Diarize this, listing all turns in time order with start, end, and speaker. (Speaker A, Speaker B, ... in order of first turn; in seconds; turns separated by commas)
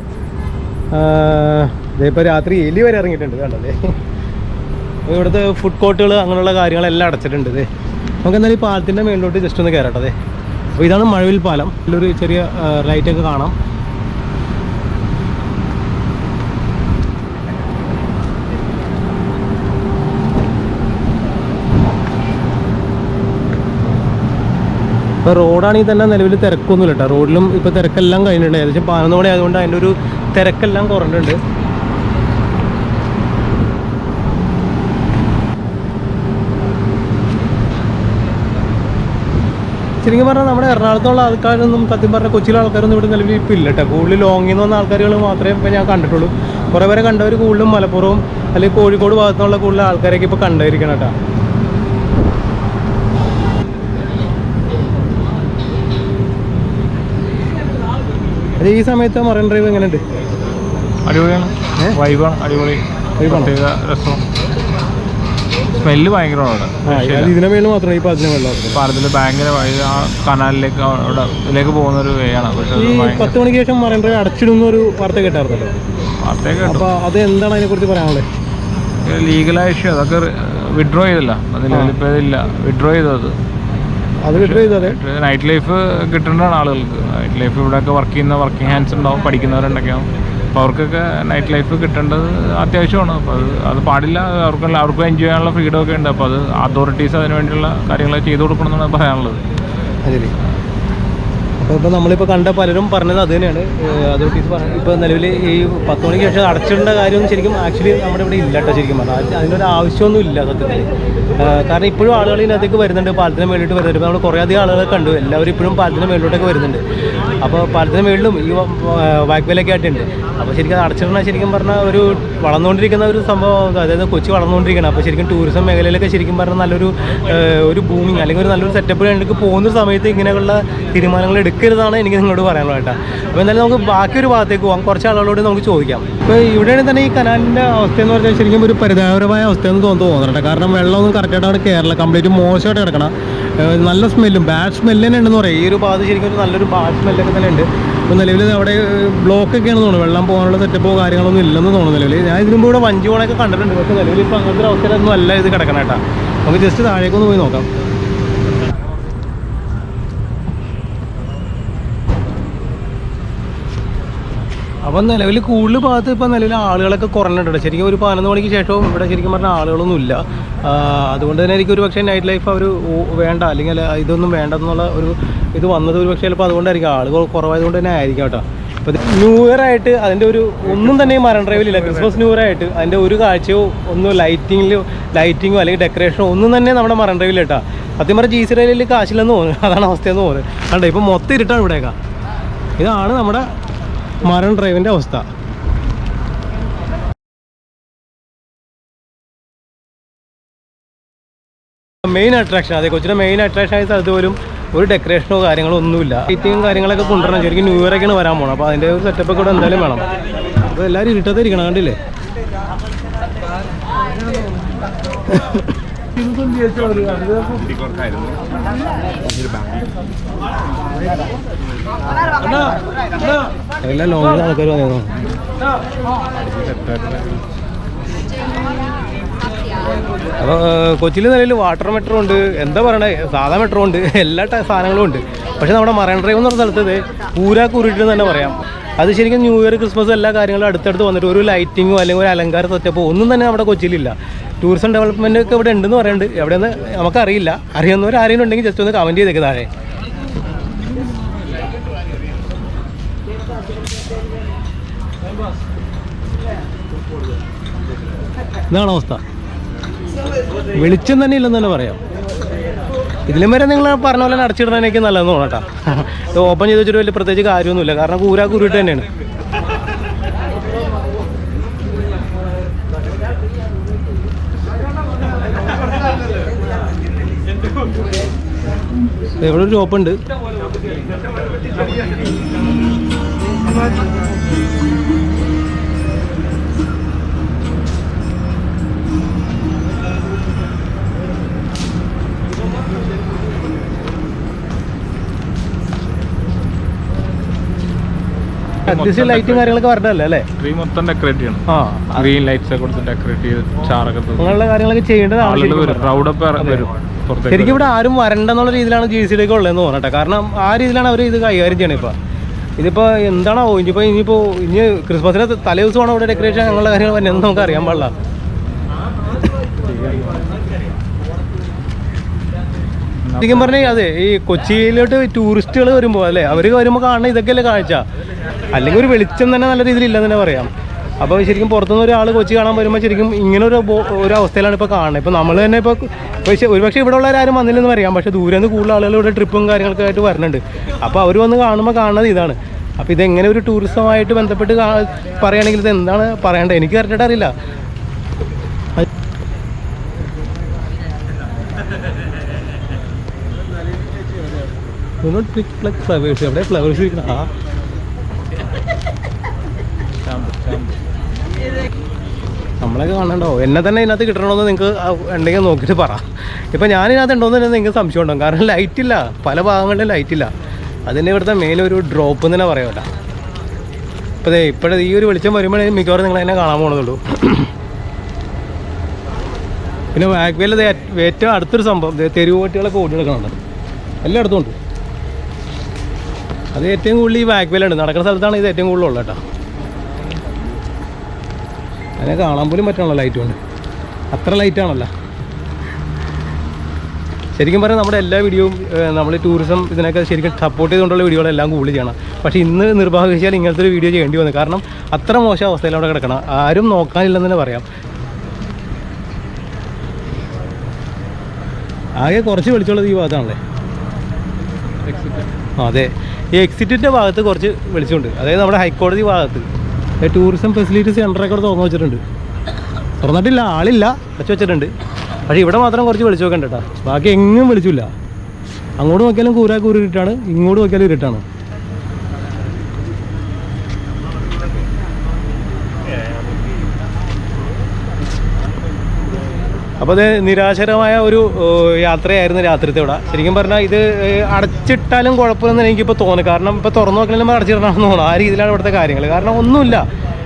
Speaker A: 0.9-4.0, Speaker A: 5.1-7.7, Speaker A: 8.2-10.2, Speaker A: 10.8-13.6, Speaker A: 25.2-31.4, Speaker A: 40.0-51.1, Speaker A: 58.6-60.0, Speaker B: 61.0-64.2, Speaker A: 63.2-63.5, Speaker B: 65.8-67.4, Speaker A: 66.9-68.8, Speaker B: 68.7-73.4, Speaker A: 72.8-75.7, Speaker B: 76.2-76.9, Speaker A: 76.7-78.2, Speaker B: 79.1-83.4, Speaker A: 84.2-85.0, Speaker B: 84.3-99.4, Speaker A: 100.0-100.3, Speaker A: 101.6-116.8, Speaker A: 117.4-157.7, Speaker A: 164.9-192.0, Speaker A: 192.8-193.5, Speaker A: 194.2-195.2, Speaker A: 202.0-210.1, Speaker A: 210.7-212.0, Speaker A: 215.3-215.7, Speaker A: 216.5-217.1, Speaker A: 223.8-225.2, Speaker A: 230.4-249.7, Speaker A: 258.7-259.2, Speaker A: 260.8-262.0, Speaker A: 263.3-269.1, Speaker A: 279.4-280.2, Speaker B: 298.9-299.8, Speaker A: 298.9-300.5, Speaker B: 300.6-304.6, Speaker A: 301.7-302.3, Speaker A: 304.4-306.9, Speaker B: 305.4-307.9, Speaker A: 307.5-312.2, Speaker A: 312.8-318.1, Speaker B: 319.9-320.4, Speaker B: 323.2-323.9, Speaker A: 323.4-328.1, Speaker A: 328.7-347.5, Speaker A: 355.2-357.5, Speaker B: 360.2-361.0, Speaker A: 362.8-370.5, Speaker A: 371.1-373.1, Speaker A: 374.4-377.7, Speaker A: 380.1-383.6, Speaker A: 384.2-384.8, Speaker A: 386.7-389.4, Speaker A: 392.2-393.6, Speaker A: 394.3-395.1, Speaker A: 397.6-407.9, Speaker A: 412.2-413.6, Speaker B: 415.1-415.4, Speaker A: 415.8-419.7, Speaker A: 420.2-422.2, Speaker A: 423.2-424.9, Speaker A: 425.5-428.1, Speaker A: 429.0-431.4, Speaker A: 440.0-450.1